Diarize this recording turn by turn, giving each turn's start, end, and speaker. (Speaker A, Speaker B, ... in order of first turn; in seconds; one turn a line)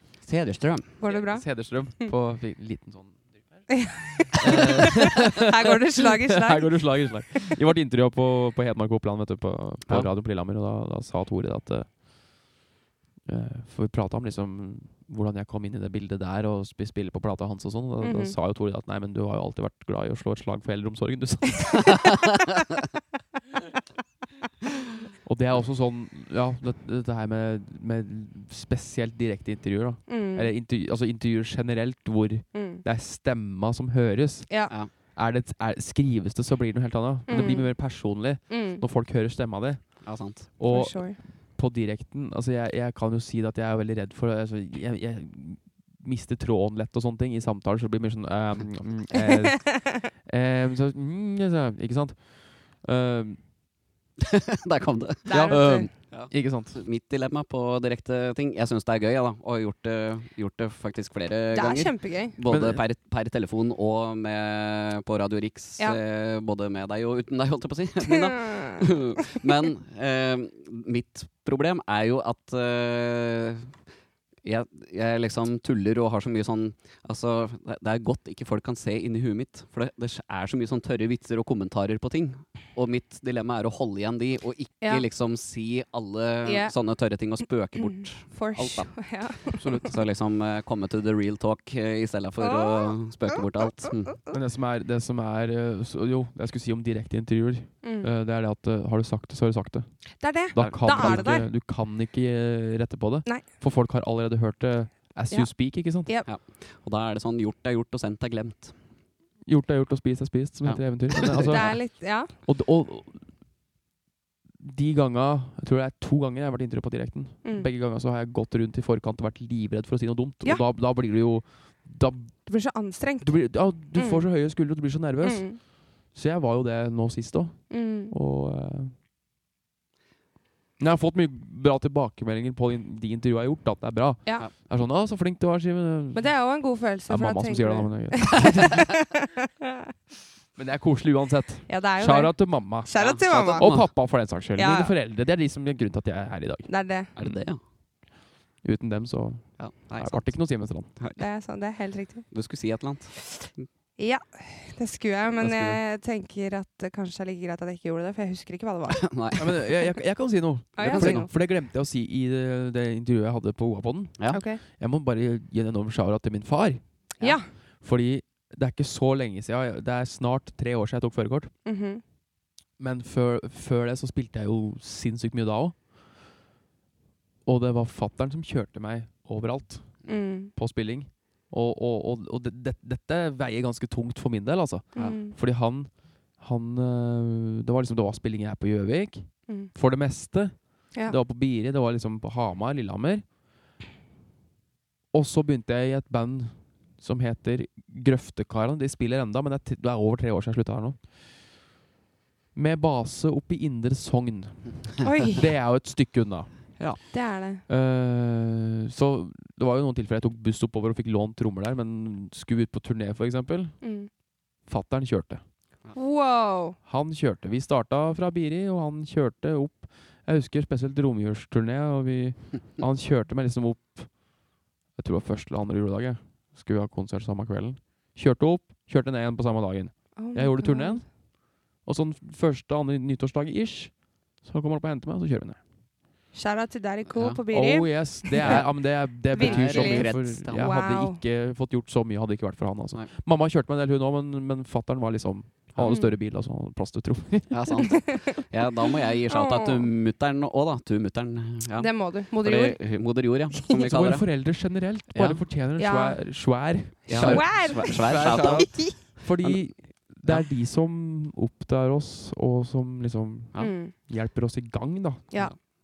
Speaker A: 0.2-1.0
Speaker B: 1.0-2.1
Speaker C: 1.1-3.7
Speaker B: 3.7-6.8
Speaker C: 4.4-12.0
Speaker A: 4.4-4.9
Speaker C: 13.3-22.1
Speaker B: 18.0-18.4
Speaker C: 25.2-34.5
Speaker B: 30.1-30.5
Speaker B: 32.5-32.8
Speaker C: 35.1-39.8
Speaker B: 37.3-37.7
Speaker B: 38.5-38.8
Speaker A: 40.0-40.5
Speaker C: 40.6-52.3
Speaker B: 40.7-41.2
Speaker B: 49.2-49.8
Speaker C: 52.8-53.4
Speaker A: 54.2-73.7
Speaker B: 55.3-55.9
Speaker C: 55.3-56.8
Speaker B: 61.5-62.4
Speaker C: 62.5-62.8
Speaker B: 68.1-68.8
Speaker A: 74.5-88.9
Speaker B: 86.5-86.7
Speaker B: 87.8-89.9
Speaker C: 89.6-90.0
Speaker A: 89.8-94.2
Speaker B: 92.4-93.9
Speaker C: 94.3-99.9
Speaker B: 97.8-98.1
Speaker B: 100.2-101.5
Speaker C: 100.5-106.1
Speaker A: 100.6-101.4
Speaker B: 105.3-106.3
Speaker A: 106.2-108.8
Speaker C: 109.5-113.3
Speaker A: 110.6-111.7
Speaker B: 111.3-112.3
Speaker C: 114.6-122.4
Speaker B: 122.5-123.4
Speaker C: 123.2-125.5
Speaker B: 124.0-124.3
Speaker B: 125.2-125.6
Speaker C: 126.1-128.9
Speaker B: 127.7-128.1
Speaker C: 130.8-136.3
Speaker B: 136.1-139.8
Speaker C: 137.1-138.8
Speaker C: 140.6-146.7
Speaker B: 141.7-143.9
Speaker A: 142.9-143.9
Speaker B: 144.6-144.9
Speaker B: 146.7-147.1
Speaker A: 147.2-147.6
Speaker C: 148.6-150.9
Speaker A: 149.6-150.4
Speaker A: 151.0-151.2
Speaker B: 151.2-152.3
Speaker A: 152.3-153.7
Speaker B: 153.3-159.1
Speaker A: 155.4-155.8
Speaker A: 158.9-159.5
Speaker C: 159.4-164.2
Speaker A: 160.8-161.2
Speaker B: 160.8-161.3
Speaker B: 164.3-164.6
Speaker C: 164.7-166.8
Speaker B: 167.2-167.5
Speaker C: 167.8-171.5
Speaker B: 171.7-172.0
Speaker C: 172.8-175.8
Speaker C: 177.4-193.2
Speaker B: 180.1-180.5
Speaker B: 185.0-185.3
Speaker C: 195.1-201.0
Speaker C: 202.6-206.5
Speaker B: 205.0-205.5
Speaker B: 207.1-207.6
Speaker C: 207.7-213.8
Speaker B: 213.8-214.1
Speaker C: 214.7-215.4
Speaker B: 215.9-216.8
Speaker C: 216.9-224.2
Speaker C: 225.0-231.1
Speaker B: 230.2-231.0
Speaker C: 231.8-235.6
Speaker B: 236.3-238.6
Speaker A: 237.1-237.4
Speaker C: 237.5-247.8
Speaker A: 238.4-238.7
Speaker B: 239.3-241.2
Speaker A: 239.4-240.7
Speaker B: 245.8-246.1
Speaker A: 247.5-254.3
Speaker B: 247.8-248.4
Speaker B: 249.3-249.9
Speaker B: 251.8-252.8
Speaker C: 253.7-265.3
Speaker A: 255.1-255.4
Speaker B: 255.8-256.2
Speaker A: 257.1-258.9
Speaker B: 257.1-259.0
Speaker B: 263.6-263.9